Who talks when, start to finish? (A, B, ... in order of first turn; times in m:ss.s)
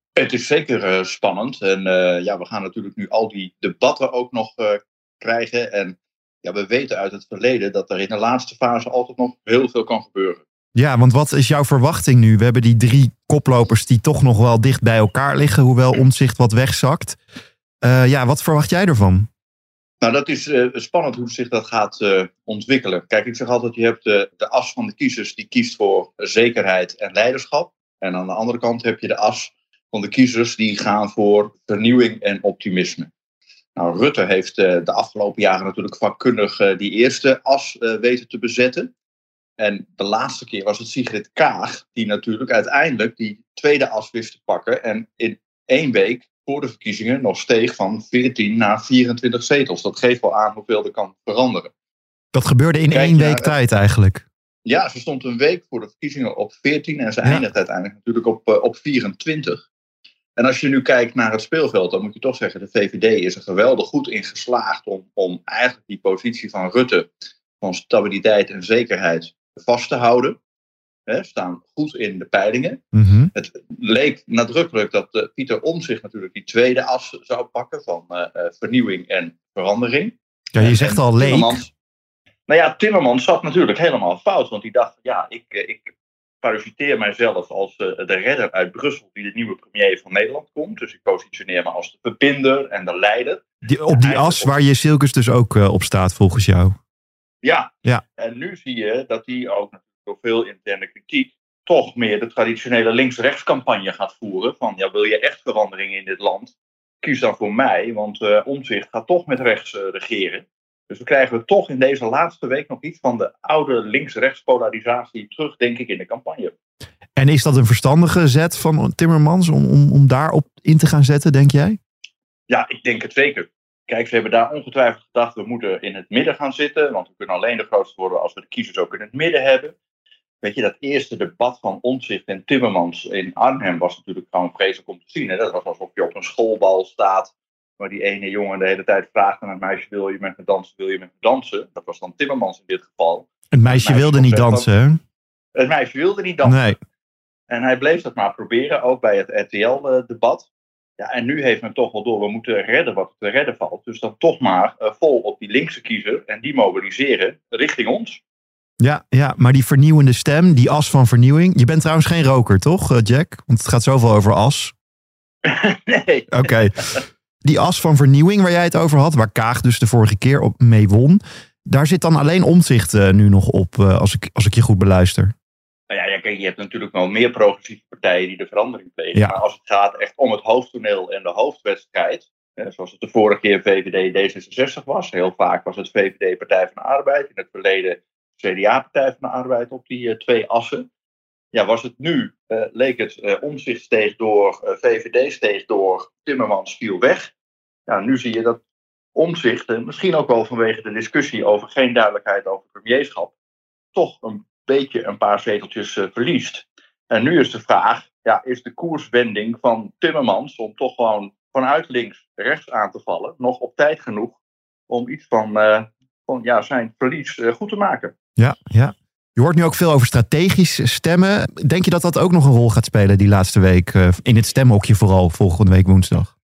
0:00.2-0:10.4 A
0:10.8-0:17.2 B
0:17.8-0:19.3 B
0:20.0-0:33.1 A
0:33.8-0:38.9 A
0:39.6-0:51.7 A
0:52.3-0:54.2 B
0:52.9-0:53.6 A
0:54.6-0:59.6 A
1:00.4-1:07.1 A
1:07.6-1:10.4 A
1:11.1-1:12.8 A
1:12.9-1:13.3 B
1:13.4-1:21.7 A
1:20.6-1:21.7 B
1:22.5-1:25.9 A
1:26.4-1:34.6 A
1:33.6-1:36.8 B
1:37.4-1:56.5 A
1:57.2-2:01.8 B
2:02.5-2:09.7 A
2:10.4-2:23.3 A
2:23.5-2:25.0 B
2:23.8-2:24.7 A
2:25.6-2:26.6 A
2:26.4-2:26.8 B
2:27.5-2:30.5 A
2:31.0-2:38.2 A
2:38.8-2:44.7 B
2:45.4-2:47.0 A
2:46.3-2:46.8 B
2:47.4-2:55.3 B
2:55.9-3:10.9 A
2:59.1-2:59.4 B
3:11.5-3:17.3 A
3:17.9-3:18.6 A
3:19.2-3:23.3 A
3:24.0-3:38.1 A
3:38.4-3:46.3 B